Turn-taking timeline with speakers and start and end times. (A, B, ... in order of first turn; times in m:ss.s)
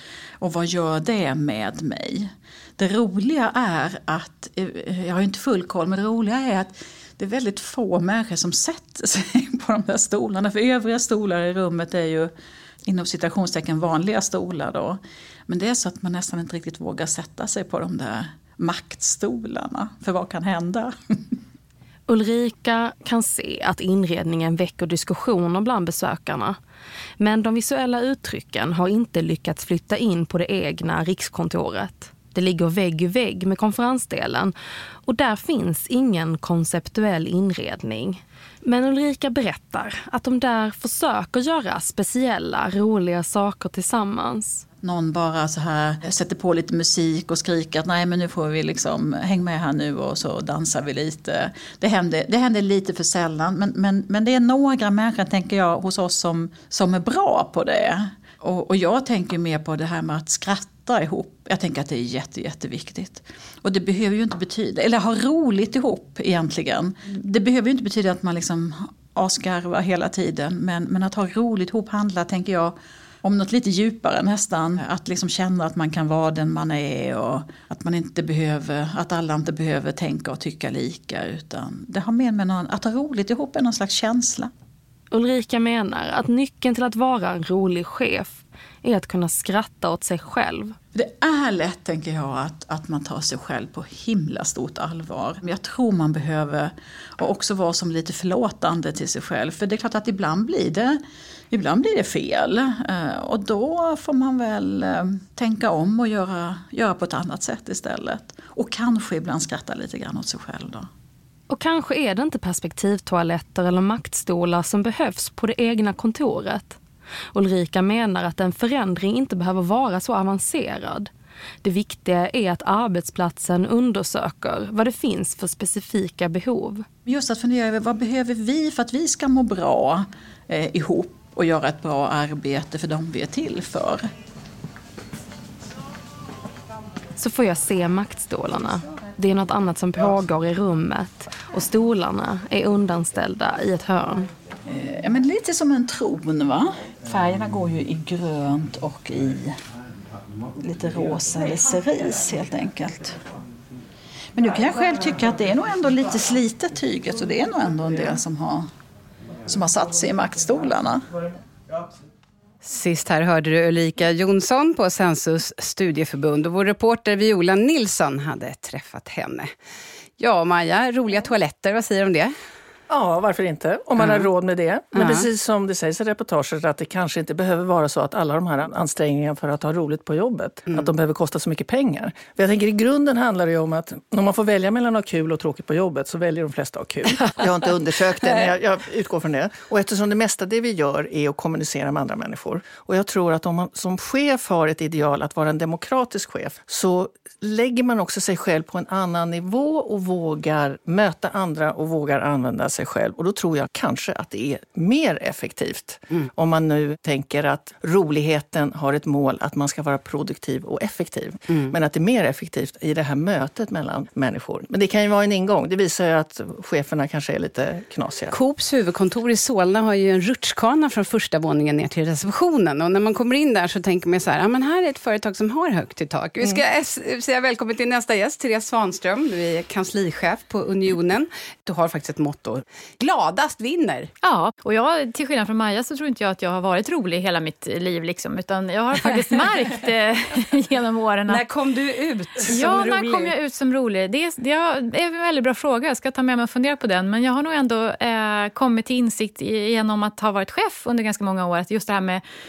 0:00.4-0:12.3 A
0:12.9-0:21.4 A
0:22.1-0:26.6 B
0:27.2-0:34.5 B
0:35.0-0:44.6 B
0:44.8-1:24.5 A
1:25.1-1:30.8 B
1:30.9-1:41.0 A
1:41.5-1:50.9 A
1:51.5-1:56.8 B
1:57.3-2:01.1 B
2:01.6-2:06.9 B
2:07.0-2:14.1 A
2:17.2-2:24.3 B
2:24.7-2:29.6 A
2:30.6-2:33.2 A
2:34.4-2:38.7 A
2:39.5-2:41.3 A
2:42.6-2:49.5 C
2:50.2-2:52.3 C
2:52.9-3:38.4 D
2:54.0-2:54.3 C
2:54.9-2:55.3 C
3:38.3-3:54.1 C
3:54.2-4:01.4 E
4:01.3-4:03.3 C
4:02.5-4:12.2 E